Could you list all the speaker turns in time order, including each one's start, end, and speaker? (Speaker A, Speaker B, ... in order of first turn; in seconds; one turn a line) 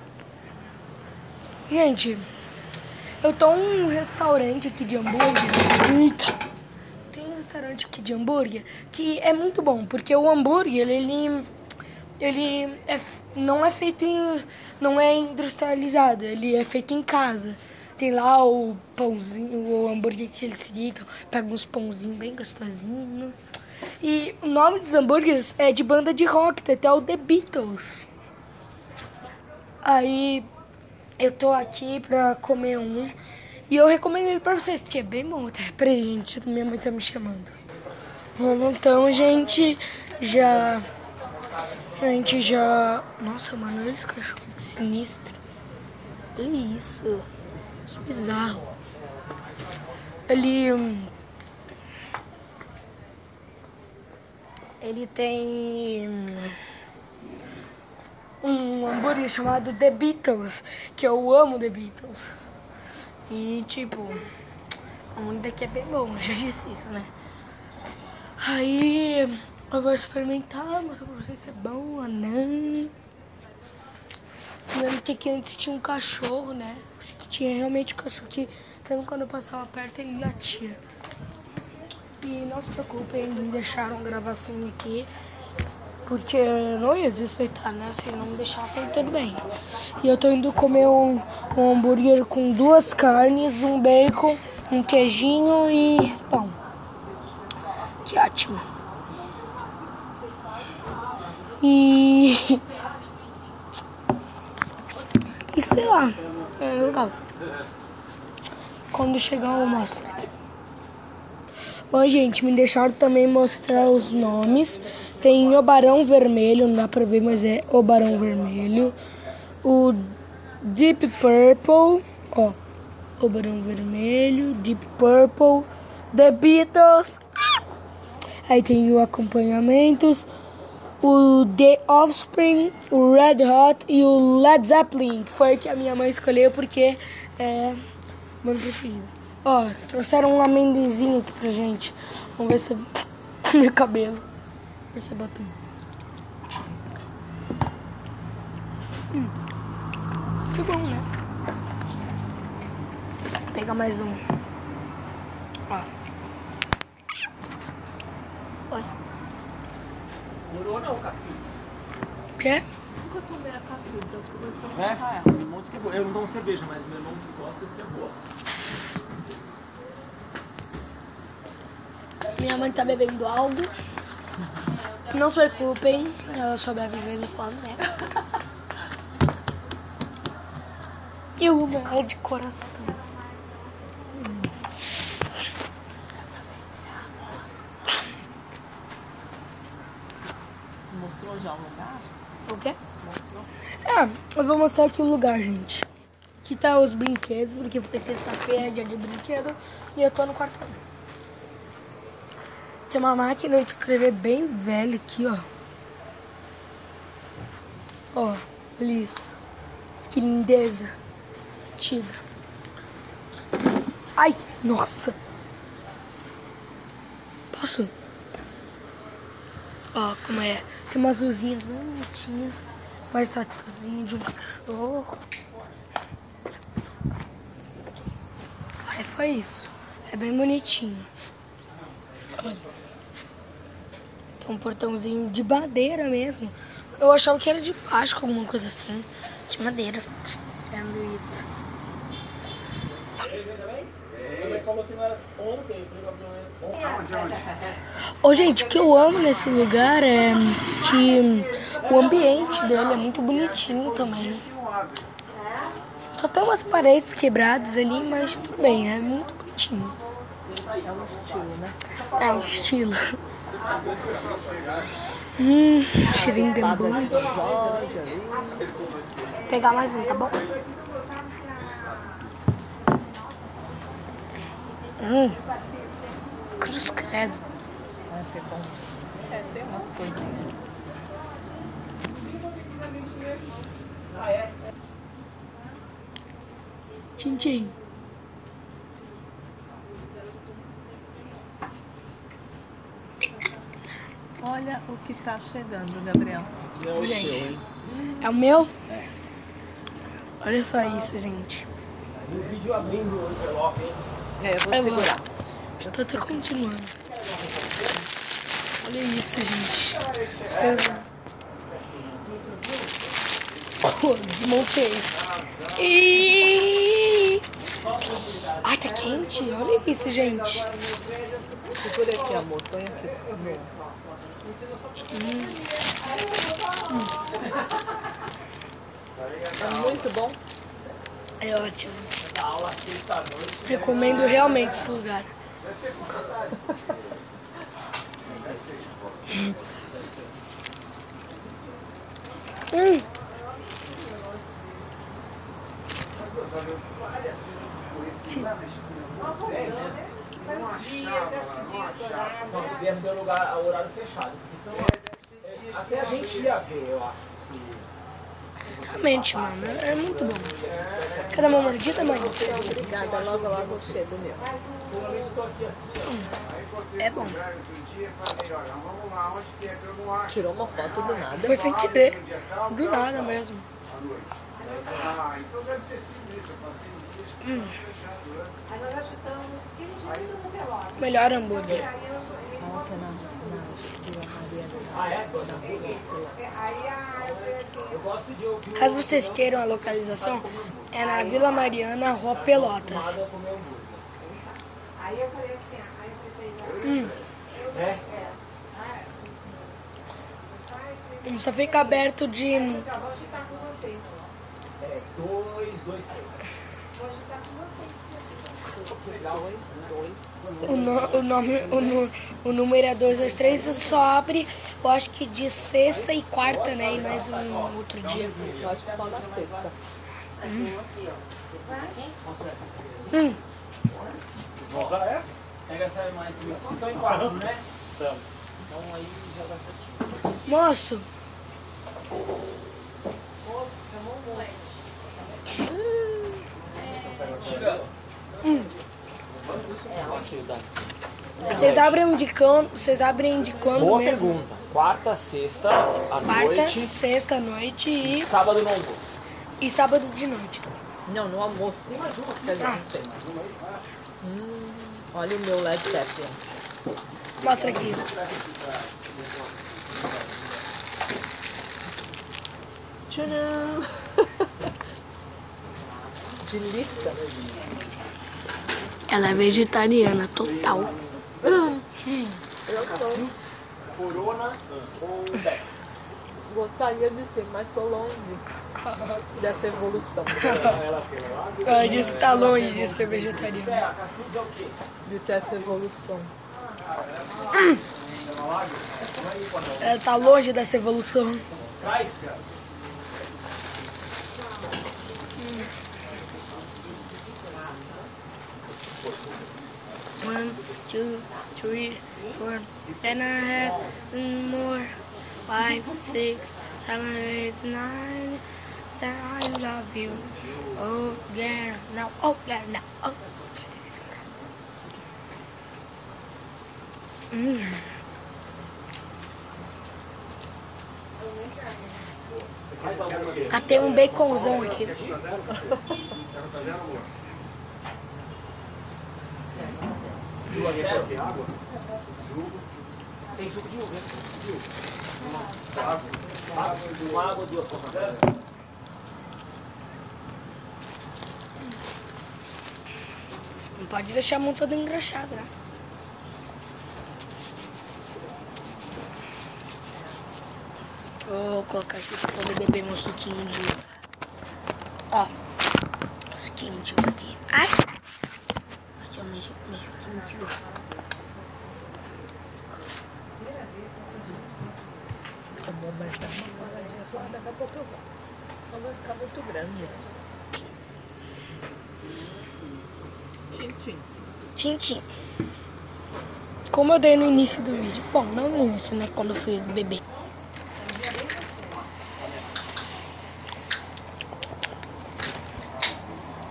Speaker A: 1.7-2.3
Speaker A: 3.2-6.4
Speaker A: 7.1-11.5
Speaker A: 12.2-23.4
Speaker A: 24.0-28.1
Speaker A: 29.8-30.4
Speaker A: 31.2-33.1
Speaker A: 33.7-37.5
Speaker A: 38.4-40.9
Speaker A: 42.0-45.4
Speaker A: 46.4-47.3
Speaker A: 47.9-48.7
Speaker A: 50.3-51.1
Speaker A: 54.8-56.6
Speaker A: 58.4-62.3
Speaker A: 63.3-64.2
Speaker A: 65.1-67.1
Speaker A: 68.4-72.9
Speaker A: 74.7-80.8
Speaker A: 82.2-85.1
Speaker A: 86.0-89.4
Speaker A: 90.0-96.5
Speaker A: 98.0-98.7
Speaker A: 101.6-102.7
Speaker A: 105.5-107.2
Speaker A: 108.9-110.3
Speaker A: 111.9-119.0
Speaker A: 119.6-122.6
Speaker A: 123.2-127.2
Speaker A: 128.5-130.3
Speaker A: 131.0-137.8
Speaker A: 138.4-144.2
Speaker A: 144.9-145.6
Speaker A: 150.5-151.1
Speaker A: 153.4-154.2
Speaker B: 160.5-161.6
Speaker A: 162.4-162.6
Speaker C: 163.0-165.3
Speaker B: 164.7-168.2
Speaker A: 172.3-173.8
Speaker A: 175.1-177.9
Speaker A: 181.4-183.0
Speaker C: 184.2-184.5
Speaker C: 190.8-192.1
Speaker A: 192.4-192.8
Speaker C: 193.0-193.5
Speaker A: 193.7-195.9
Speaker A: 196.4-200.8
Speaker A: 202.9-205.4
Speaker A: 208.1-209.4
Speaker A: 210.0-210.9
Speaker A: 211.8-212.2
Speaker A: 214.2-215.2
Speaker A: 217.5-218.5
Speaker A: 219.9-225.2
Speaker A: 228.8-231.1
Speaker A: 232.4-232.6
Speaker A: 234.4-240.1
Speaker A: 240.7-241.4
Speaker B: 243.2-247.0
Speaker A: 248.2-254.5
Speaker A: 256.2-260.0
Speaker B: 260.5-260.9
Speaker C: 260.6-261.8
Speaker A: 262.1-263.0
Speaker B: 263.6-264.6
Speaker A: 265.4-267.3
Speaker C: 266.1-268.7
Speaker A: 269.5-270.4
Speaker A: 275.0-275.4
Speaker A: 276.6-277.4
Speaker C: 278.1-280.5
Speaker A: 287.2-287.7
Speaker C: 294.4-298.2
Speaker B: 296.8-297.6
Speaker A: 298.2-298.7
Speaker A: 300.4-301.7
Speaker B: 302.2-304.0
Speaker C: 304.4-305.2
Speaker A: 304.7-305.2
Speaker C: 305.8-306.4
Speaker A: 305.8-306.9
Speaker A: 308.8-311.1
Speaker A: 313.8-317.4
Speaker B: 317.7-318.7
Speaker A: 318.6-320.7
Speaker C: 321.7-323.8
Speaker A: 325.1-325.6
Speaker A: 326.9-327.2
Speaker C: 329.6-330.4
Speaker A: 331.4-332.1
Speaker B: 332.2-334.5
Speaker A: 333.6-335.3
Speaker B: 338.2-338.9
Speaker B: 339.7-340.1
Speaker A: 342.7-343.1
Speaker B: 349.5-349.9
Speaker B: 352.5-357.8
Speaker A: 358.7-360.6
Speaker B: 358.8-364.0
Speaker A: 361.3-362.4
Speaker C: 362.0-364.5
Speaker B: 364.9-366.2
Speaker A: 367.0-367.4
Speaker C: 370.2-371.7
Speaker A: 371.4-373.6
Speaker A: 377.4-377.8
Speaker A: 381.0-381.9
Speaker C: 382.6-386.4
Speaker B: 384.9-386.0
Speaker B: 387.2-390.1
Speaker A: 388.7-393.2
Speaker B: 392.3-394.0
Speaker A: 396.8-397.1
Speaker B: 397.7-398.0
Speaker A: 401.2-402.9
Speaker B: 404.8-406.4
Speaker C: 408.7-410.5
Speaker B: 410.4-411.3
Speaker A: 410.6-418.4
Speaker B: 416.4-419.7
Speaker C: 418.0-419.8
Speaker A: 420.4-420.8
Speaker B: 422.2-423.0
Speaker A: 423.1-423.4
Speaker B: 424.6-425.0
Speaker B: 425.6-427.6
Speaker B: 428.6-430.2
Speaker A: 430.4-431.1
Speaker C: 435.6-436.4
Speaker B: 437.4-437.9
Speaker A: 438.4-438.7
Speaker B: 439.5-440.7
Speaker A: 441.5-444.4
Speaker B: 441.5-441.9
Speaker B: 443.8-446.9
Speaker A: 446.2-448.3
Speaker B: 448.0-449.0
Speaker A: 449.6-450.8
Speaker C: 451.1-453.3
Speaker C: 454.2-456.4
Speaker A: 457.4-458.1
Speaker C: 463.1-464.3
Speaker C: 466.4-467.4
Speaker A: 469.1-470.9
Speaker C: 471.4-471.8
Speaker A: 472.0-472.4
Speaker C: 472.6-473.3
Speaker B: 473.0-476.0
Speaker C: 476.4-478.4
Speaker A: 478.8-479.2
Speaker C: 479.3-480.6
Speaker A: 480.4-480.8
Speaker B: 480.4-484.8
Speaker A: 481.6-483.8
Speaker C: 485.0-486.3
Speaker B: 485.4-485.8
Speaker A: 487.5-487.8
Speaker B: 488.3-489.8
Speaker A: 489.8-491.5
Speaker B: 491.8-492.2
Speaker A: 495.4-495.7
Speaker A: 500.2-508.4
Speaker A: 508.9-513.6
Speaker A: 517.3-517.9
Speaker B: 522.8-523.9
Speaker A: 523.5-525.0
Speaker B: 524.8-525.6
Speaker B: 530.5-531.2
Speaker B: 533.3-534.4
Speaker B: 536.5-538.2
Speaker A: 543.8-545.5
Speaker A: 551.2-553.8
Speaker A: 556.3-557.8
Speaker A: 559.0-560.6
Speaker C: 565.6-568.0
Speaker C: 568.7-570.0
Speaker C: 573.5-574.1
Speaker A: 574.5-575.0
Speaker A: 576.7-580.0